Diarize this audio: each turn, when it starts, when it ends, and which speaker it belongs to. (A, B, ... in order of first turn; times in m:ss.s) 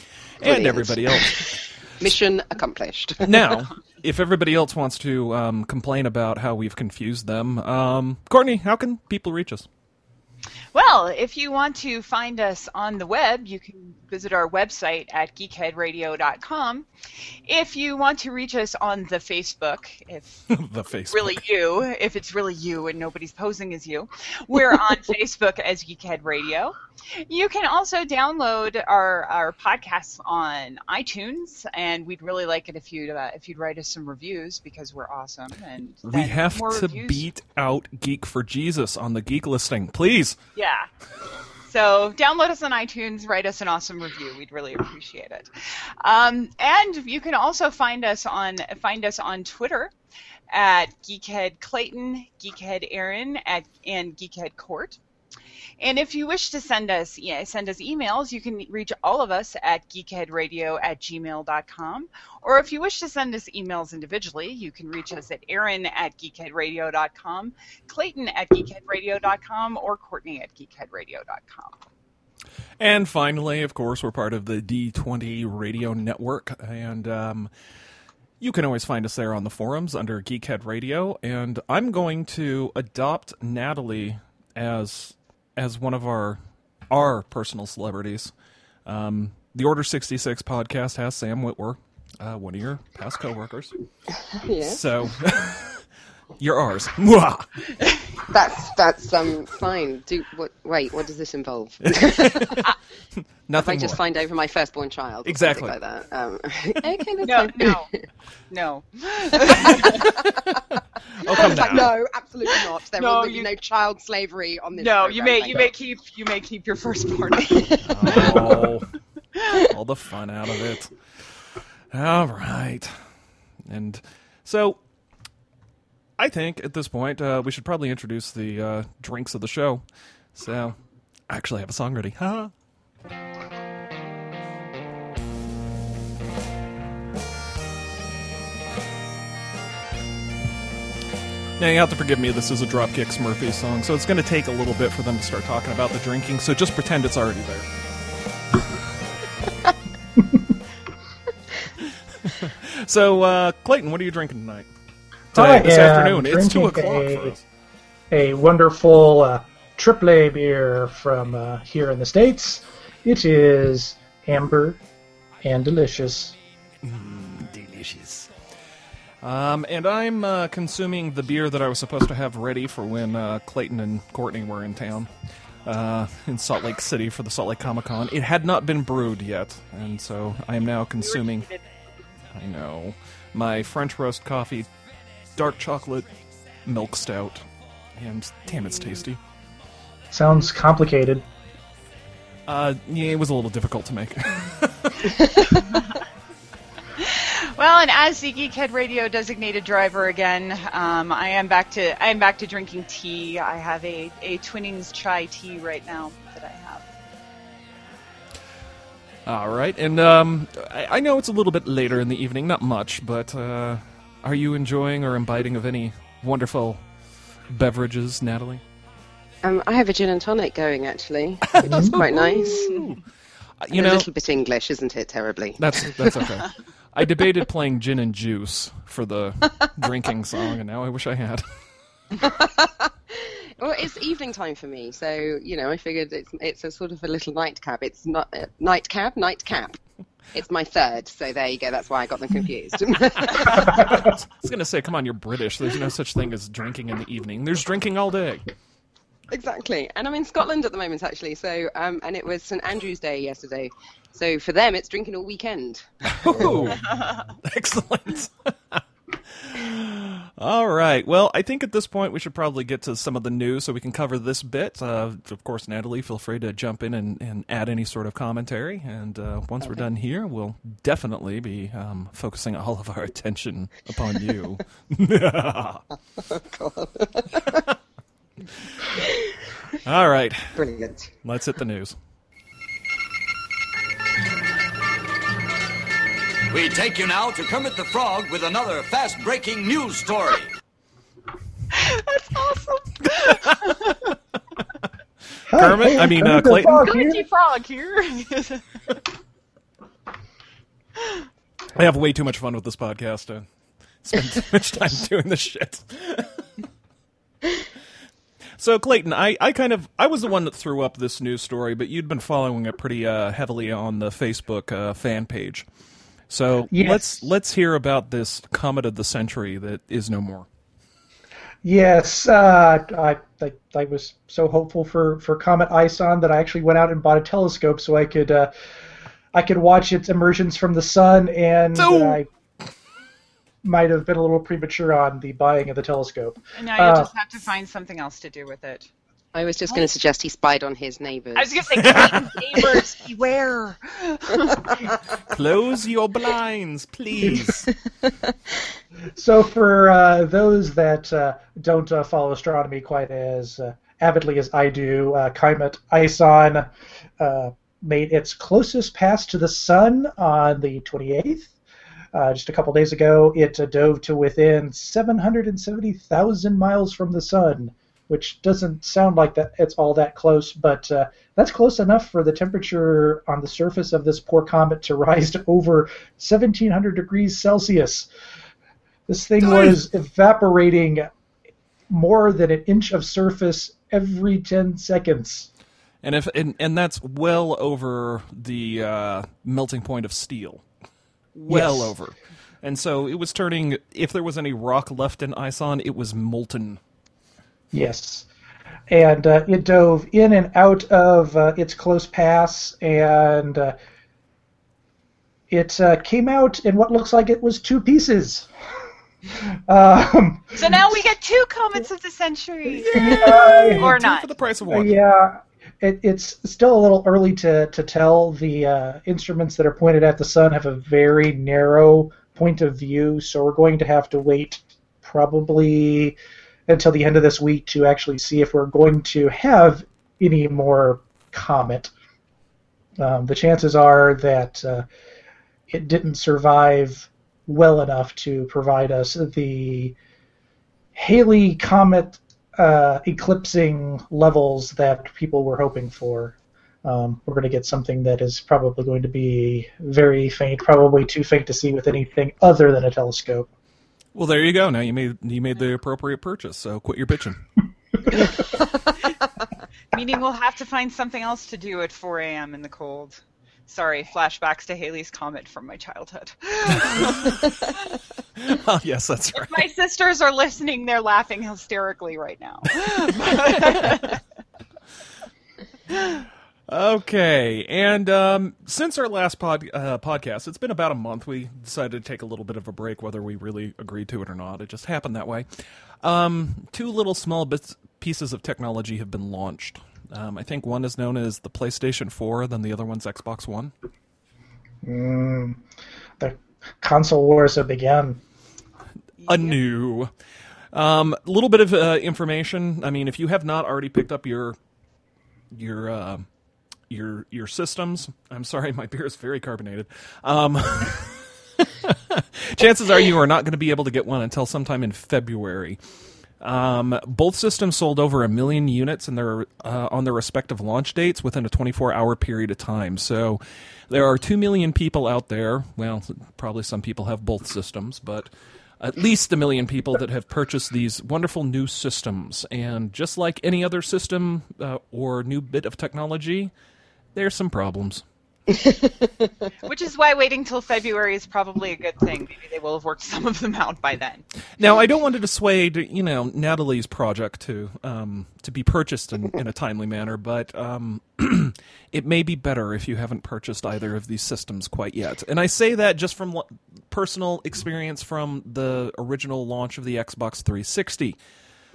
0:00.4-0:01.6 A
0:00.4-0:03.6 B
0:03.2-0:09.6 A
0:10.7-0:16.9 C
0:17.4-0:20.4 C
0:20.5-0:21.4 A
0:21.1-0:37.3 C
0:36.0-0:40.4 A
0:40.6-0:40.9 C
0:41.6-0:49.9 C
0:50.5-0:55.0 C
0:55.8-1:11.8 C
1:12.8-1:17.5 A
1:18.4-1:26.4 A
1:26.9-1:28.3 A
1:28.8-1:33.7 A
1:34.3-1:34.8 B
1:34.6-1:35.8 A
1:36.4-1:37.5 A
1:37.8-1:38.1 C
1:38.3-1:42.7 B
1:41.8-1:42.6 A
1:43.5-1:44.0 A
1:43.5-1:47.8 B
1:45.2-1:45.7 A
1:47.2-1:47.9 C
1:48.5-1:50.2 C
1:49.5-1:55.7 B
1:51.2-1:51.8 C
1:51.2-1:51.9 A
1:52.5-1:53.5 C
1:54.8-1:58.6 C
1:57.5-1:58.7 B
1:57.8-1:58.9 A
1:59.7-2:00.9 A
2:01.9-2:02.9 A
2:03.6-2:04.8 A
2:06.2-2:09.8 A
2:10.3-2:10.8 A
2:11.3-2:12.5 A
2:21.6-2:27.7 A
2:32.3-2:34.7 A
2:35.3-2:37.3 D
2:35.3-2:37.4 A
2:38.1-2:44.8 D
2:45.4-2:46.3 D
2:46.8-2:48.3 A
2:49.2-2:55.1 A
2:55.6-3:01.5 A
3:01.0-3:01.6 C
3:02.3-3:04.7 A
3:05.4-3:09.2 A
3:10.1-3:11.2 D
3:12.5-3:15.2 A
3:15.1-3:15.5 B
3:15.7-3:16.0 C
3:17.0-3:26.9 C
3:29.2-3:36.8 A
3:37.5-3:38.6 A
3:39.4-3:42.8 B
3:41.5-3:43.0 A
3:41.6-3:42.0 D
3:42.4-3:42.9 C
3:43.6-3:44.1 A
3:43.7-3:46.3 B
3:45.6-3:51.5 A
3:52.2-3:59.8 B
4:00.3-4:04.0 B
4:03.4-4:08.4 A
4:03.8-4:04.1 D
4:09.3-4:16.7 B
4:16.2-4:18.8 A
4:16.8-4:17.3 C
4:19.4-4:35.8 A
4:29.6-4:29.8 B
4:36.2-4:37.6 B
4:39.0-4:39.3 B
4:39.8-4:40.6 A
4:40.5-4:41.1 B
4:41.2-4:41.9 A
4:46.5-4:50.5 E
4:51.7-4:54.0 C
4:55.5-4:57.2 D
4:55.5-4:56.9 A
4:56.7-4:58.6 C
5:01.7-5:03.4 A
5:04.0-5:06.3 A
5:08.6-5:15.6 A
5:16.3-5:20.5 A
5:16.7-5:17.2 D
5:21.6-5:28.5 D
5:29.3-5:32.2 D
5:31.7-5:32.2 A
5:33.6-5:37.1 D
5:36.6-5:38.9 C
5:39.3-5:42.3 B
5:41.3-5:44.8 C
5:41.8-5:42.4 A
5:45.3-5:47.7 A
5:47.2-5:47.5 D
5:49.2-6:01.5 D
6:02.1-6:18.1 D
6:19.1-6:21.1 D
6:21.9-6:25.5 D
6:26.0-6:30.6 A
6:31.3-6:36.8 A
6:31.5-6:31.9 D
6:37.7-6:38.3 D
6:38.9-6:43.7 D
6:45.5-6:48.5 D
6:49.7-6:50.9 D
6:50.5-6:54.3 C
6:52.8-6:54.0 D
6:53.2-6:54.9 A
6:54.6-7:06.2 D
7:06.7-7:11.9 D
7:13.0-7:14.8 D
7:15.7-7:20.0 D
7:20.9-7:33.5 D
7:34.1-7:37.4 A
7:39.9-7:48.0 C
7:46.8-7:47.1 A
7:48.4-7:49.6 A
7:49.4-7:54.2 C
7:53.7-7:54.0 A
7:55.9-7:56.2 C
7:56.7-8:05.5 A
8:06.0-8:13.7 A
8:14.8-8:15.6 D
8:16.2-8:18.2 D
8:19.2-8:20.1 A
8:19.3-8:19.5 C
8:20.7-8:24.6 A
8:25.5-8:26.2 A
8:26.9-8:35.8 A
8:36.4-8:56.5 A
8:57.1-8:58.0 A
8:58.5-8:59.3 B
8:59.6-9:04.2 C
9:04.6-9:21.2 A